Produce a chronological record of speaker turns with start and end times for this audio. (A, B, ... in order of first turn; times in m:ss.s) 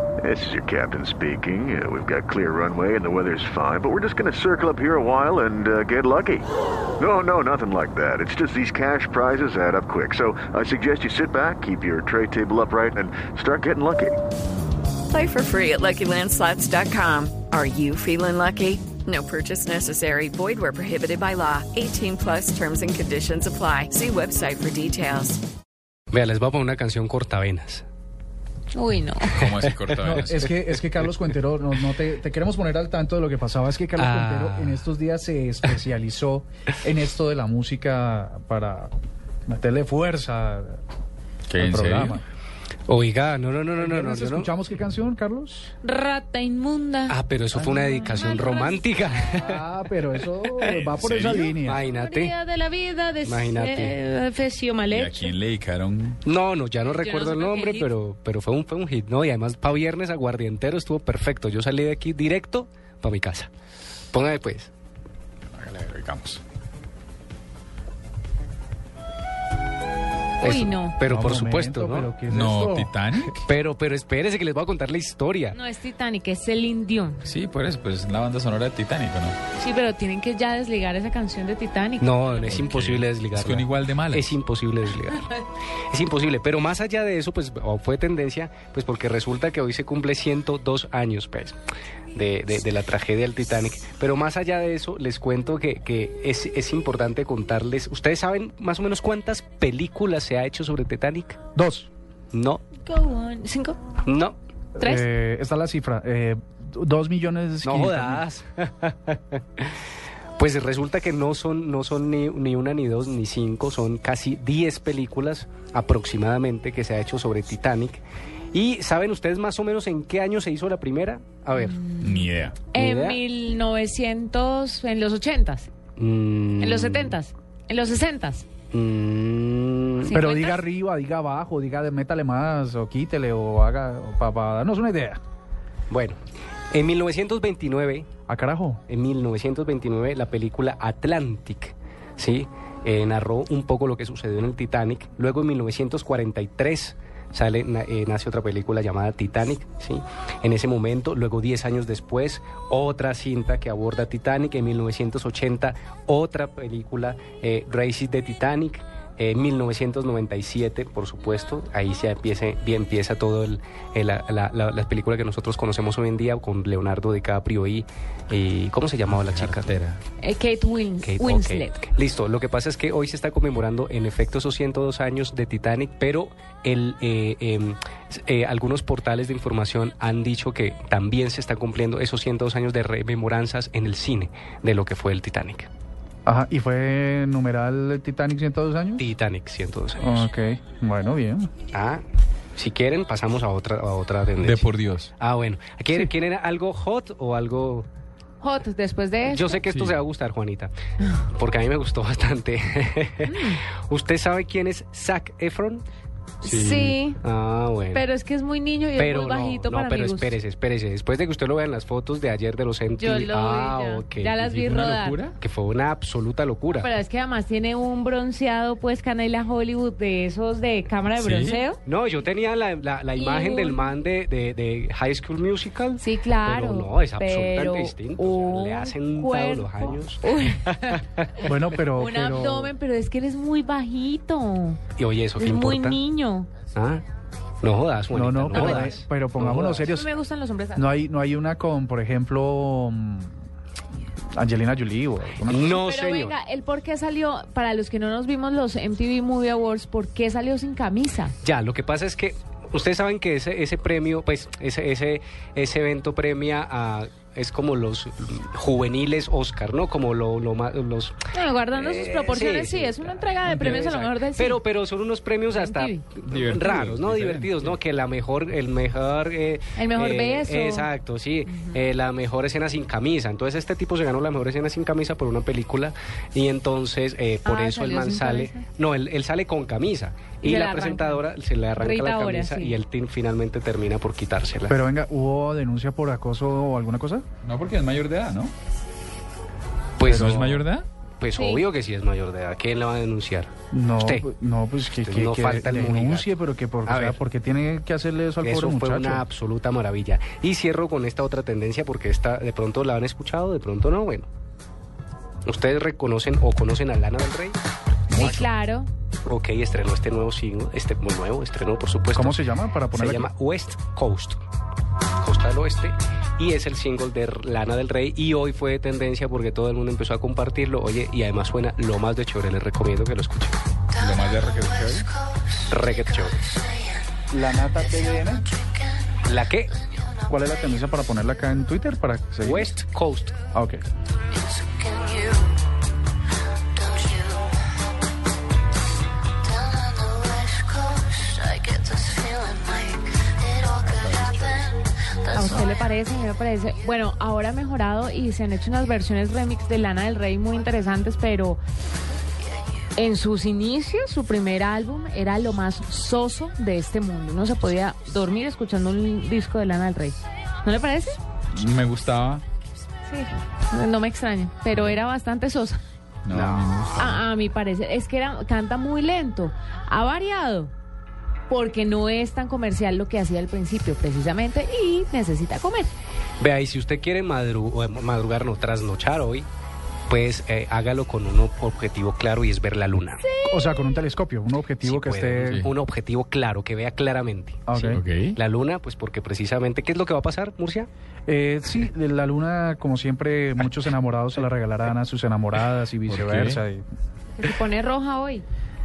0:00.2-0:06.5 A
0:07.0-0:14.2 A
0:15.1-0:25.4 B
0:26.1-0:27.8 C
0:28.7-0:29.4 D
0:29.3-0:30.4 E
0:30.0-0:38.9 F
0:34.0-0:34.8 C
0:39.5-0:40.8 F
0:41.5-0:42.2 E
0:41.6-0:42.2 F
0:42.9-0:44.5 C
0:43.8-0:45.7 F
0:45.8-0:48.8 D
0:47.1-0:49.6 C
0:49.3-0:51.9 F
0:50.4-0:50.7 C
0:50.9-0:51.5 E
0:51.6-0:52.3 C
0:51.9-0:55.3 D
0:53.2-0:54.0 C
0:54.9-0:56.2 E
0:56.2-1:03.5 C
0:56.8-0:57.9 D
1:04.1-1:04.7 C
1:05.6-1:06.4 E
1:10.4-1:11.0 D
1:10.4-1:12.1 C
1:11.0-1:12.9 F
1:12.3-1:13.4 E
1:13.2-1:15.6 C
1:15.5-1:17.2 D
1:17.2-1:19.4 E
1:19.6-1:22.7 D
1:22.0-1:25.4 C
1:22.5-1:24.3 E
1:25.9-1:31.6 C
1:32.1-1:41.4 C
1:41.5-1:41.9 F
1:42.3-1:42.6 C
1:42.8-1:43.8 D
1:44.0-1:44.4 C
1:44.8-1:48.2 F
1:44.8-1:45.1 D
1:47.6-1:49.8 C
1:50.4-2:01.8 C
2:01.6-2:05.7 D
2:02.0-2:02.6 E
2:02.7-2:03.2 C
2:06.0-2:07.2 C
2:06.6-2:08.5 D
2:08.7-2:10.2 C
2:10.0-2:10.6 D
2:10.1-2:15.2 F
2:15.9-2:16.2 C
2:16.7-2:18.1 C
2:18.3-2:18.8 F
2:18.9-2:49.7 C
2:49.1-2:50.0 E
2:50.2-2:51.8 D
2:51.0-3:05.7 C
3:06.2-3:09.0 F
3:09.0-3:10.3 C
3:10.0-3:11.5 F
3:11.7-3:12.0 C
3:12.5-3:17.9 C
3:14.4-3:15.1 E
3:18.4-3:19.6 D
3:19.2-3:20.7 C
3:19.7-3:20.0 E
3:21.3-3:25.8 C
3:23.3-3:23.6 D
3:26.4-3:27.2 D
3:26.4-3:27.0 E
3:27.2-3:28.0 C
3:27.9-3:30.4 D
3:29.0-3:34.5 C
3:33.0-3:35.2 D
3:34.4-3:35.3 E
3:35.4-3:36.9 C
3:36.7-3:41.8 D
3:41.2-3:41.6 E
3:41.8-3:50.2 C
3:43.2-3:43.9 D
3:46.0-3:51.0 D
3:51.4-3:52.7 F
3:51.9-3:54.8 D
3:55.0-3:56.0 C
3:55.4-3:56.5 D
3:56.7-3:57.0 C
3:57.6-3:59.9 C
3:58.1-4:00.1 F
3:58.5-3:58.9 D
3:59.9-4:00.9 D
4:00.8-4:03.3 F
4:04.3-4:05.8 F
4:05.5-4:06.3 C
4:05.7-4:11.3 D
4:11.4-4:21.2 C
4:21.3-4:24.6 D
4:21.7-4:44.8 C
4:25.5-4:26.0 D
4:26.2-4:27.8 E
4:29.8-4:30.9 D
4:31.5-4:31.8 D
4:37.4-4:38.6 D
4:40.4-4:41.2 D
4:41.7-4:42.8 D
4:44.7-4:47.2 F
4:47.4-4:48.5 E
4:50.0-4:50.3 C
4:50.0-4:50.6 F
4:50.1-4:50.9 E
4:51.2-4:53.5 C
4:51.3-4:51.6 D
4:53.7-4:59.2 F
4:55.0-4:56.3 C
4:56.8-4:57.2 C
4:58.4-5:04.3 C
5:05.4-5:07.6 C
5:08.1-5:08.9 D
5:09.2-5:14.4 C
5:12.1-5:13.3 F
5:15.2-5:23.6 C
5:24.0-5:25.1 E
5:25.7-5:26.4 C
5:27.3-5:28.5 F
5:29.2-5:29.8 C
5:30.3-5:32.7 F
5:32.4-5:33.4 C
5:33.5-5:33.8 F
5:43.6-5:44.8 E
5:45.3-5:51.6 D
5:53.0-6:01.2 D
6:01.5-6:02.4 E
6:03.1-6:05.8 D
6:06.2-6:07.2 E
6:06.3-6:06.7 C
6:07.0-6:10.7 D
6:11.5-6:15.9 D
6:16.4-6:19.5 C
6:20.1-6:23.2 C
6:23.5-6:25.6 F
6:24.8-6:30.9 C
6:27.7-6:28.0 F
6:27.9-6:28.4 E
6:31.3-6:36.8 F
6:36.1-6:36.6 E
6:37.4-6:38.4 D